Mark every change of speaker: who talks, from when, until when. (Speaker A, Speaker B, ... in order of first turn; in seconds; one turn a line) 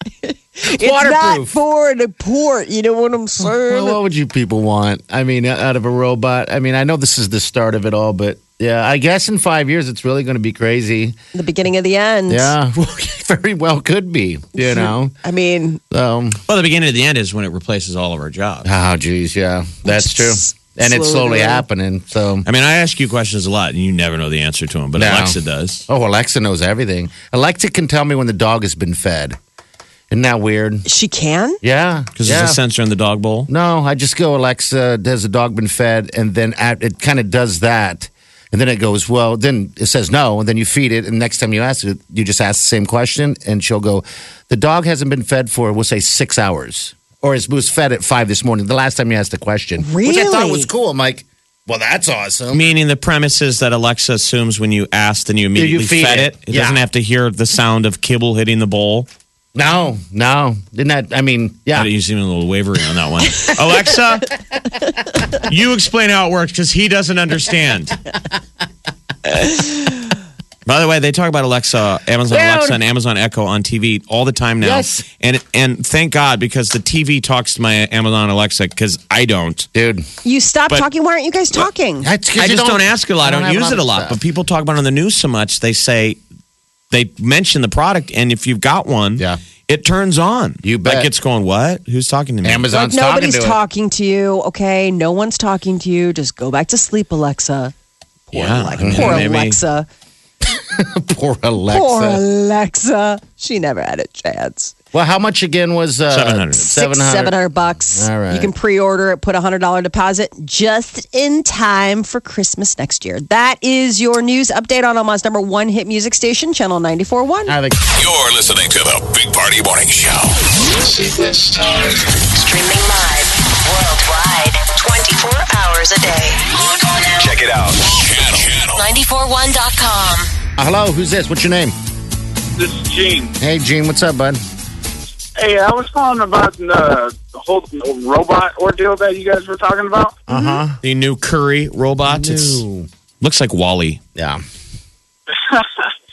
Speaker A: 0.2-4.0
Speaker B: 0.7-1.6
Speaker B: 3.5-11.2
Speaker A: 11.3-12.5
Speaker B: 12.3-15.2
Speaker A: 14.6-15.8
Speaker B: 15.9-16.4
Speaker C: 16.5-18.7
Speaker B: 18.6-22.5
Speaker A: 19.9-21.6
Speaker C: 22.5-25.9
Speaker B: 25.0-25.4
Speaker B: 25.9-29.4
Speaker B: 30.1-30.9
Speaker A: 30.9-31.6
Speaker B: 31.6-32.6
Speaker C: 32.2-33.5
Speaker B: 33.5-52.6
Speaker A: 49.8-50.7
Speaker C: 52.5-59.1
Speaker B: 55.5-56.8
Speaker B: 59.5-61.9
Speaker C: 61.7-64.3
Speaker C: 65.3-68.0
Speaker C: 69.3-70.0
Speaker C: 70.7-79.7
Speaker B: 72.3-72.8
Speaker B: 74.6-75.0
Speaker B: 79.7-80.1
Speaker A: 80.2-82.1
Speaker B: 82.0-84.2
Speaker C: 82.4-86.2
Speaker C: 86.9-92.7
Speaker B: 90.6-91.1
Speaker B: 92.4-93.6
Speaker A: 92.7-97.7
Speaker A: 98.3-99.9
Speaker C: 98.3-99.6
Speaker B: 98.8-99.3
Speaker B: 100.5-102.2
Speaker A: 101.7-104.7
Speaker B: 104.9-108.5
Speaker C: 106.1-106.7
Speaker A: 106.7-117.6
Speaker B: 117.5-117.8
Speaker D: 117.8-121.9
Speaker E: 122.2-127.4
Speaker D: 127.2-128.9
Speaker E: 128.8-130.3
Speaker B: 130.6-131.8
Speaker F: 132.6-133.3
Speaker B: 133.4-134.4
Speaker F: 135.4-140.2
Speaker B: 140.3-140.8
Speaker A: 140.3-140.6
Speaker C: 140.8-142.6
Speaker B: 142.1-142.9
Speaker C: 143.2-144.0
Speaker B: 144.2-144.4
Speaker F: 145.3-145.9